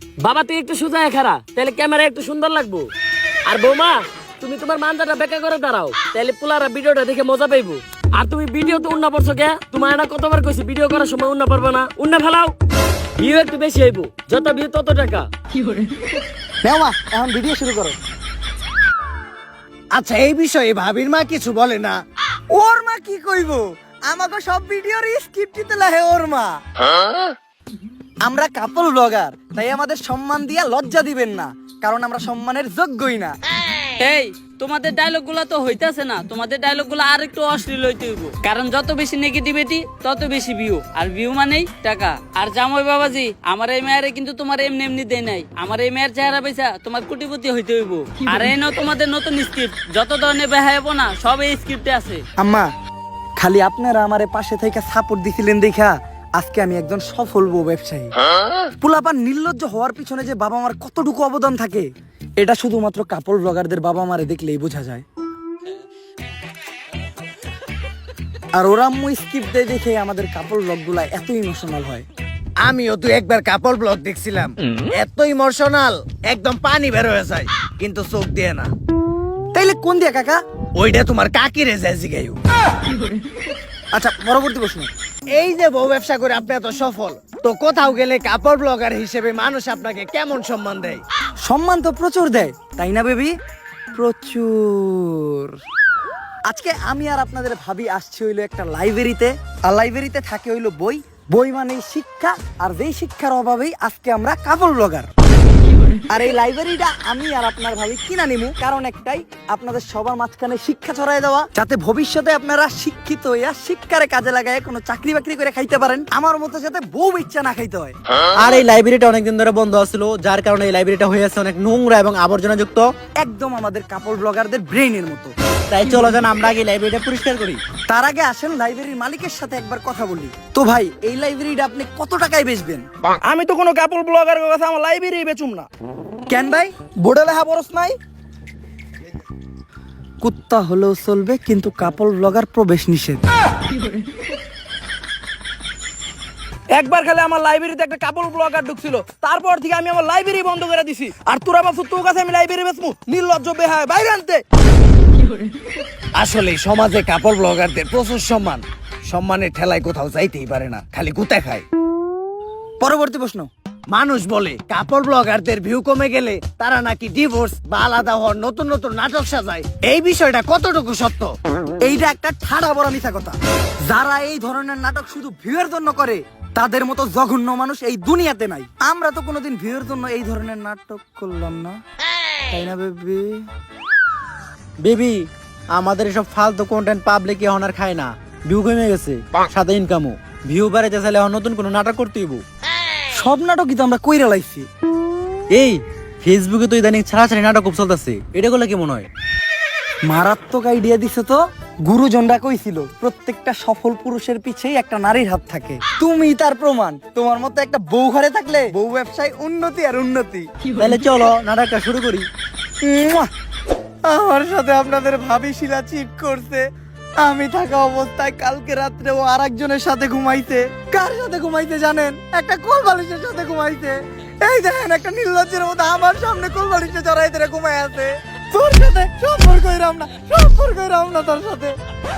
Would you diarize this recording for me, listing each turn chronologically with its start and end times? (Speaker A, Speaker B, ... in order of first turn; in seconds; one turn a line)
Speaker A: 0.2-2.9
Speaker A: 3.5-12.5
Speaker A: 13.2-15.3
Speaker B: 16.6-18.0
Speaker C: 19.9-22.0
Speaker B: 22.5-26.6
Speaker B: 28.2-33.4
Speaker D: 34.0-52.2
Speaker B: 52.4-52.7
Speaker B: 53.4-58.1
Speaker B: 58.8-61.9
Speaker B: 62.4-65.0
Speaker B: 68.6-72.0
Speaker C: 72.6-78.7
Speaker B: 79.5-80.4
Speaker C: 80.8-82.4
Speaker B: 83.9-84.9
Speaker C: 85.3-91.0
Speaker B: 91.5-93.3
Speaker B: 93.9-95.5
Speaker B: 96.5-105.1
Speaker B: 106.1-118.0
Speaker E: 118.4-122.9
Speaker B: 123.2-125.3
Speaker E: 125.7-127.6
Speaker B: 127.9-132.8
Speaker F: 133.2-135.7
Speaker B: 136.3-136.7
Speaker F: 137.0-138.0
Speaker B: 140.2-143.2
Speaker F: 146.7-154.4
Speaker C: 156.2-161.6
Speaker B: 162.8-163.5
Speaker C: 163.9-171.3
Speaker B: 171.8-181.8
Speaker B: 182.5-183.4
Speaker E: 184.8-192.4
Speaker B: 193.1-194.7
Speaker E: 195.5-199.1
Speaker B: 200.1-210.5
Speaker E: 210.8-212.3
Speaker B: 212.8-213.3
Speaker B: 214.1-216.7
Speaker B: 217.2-231.8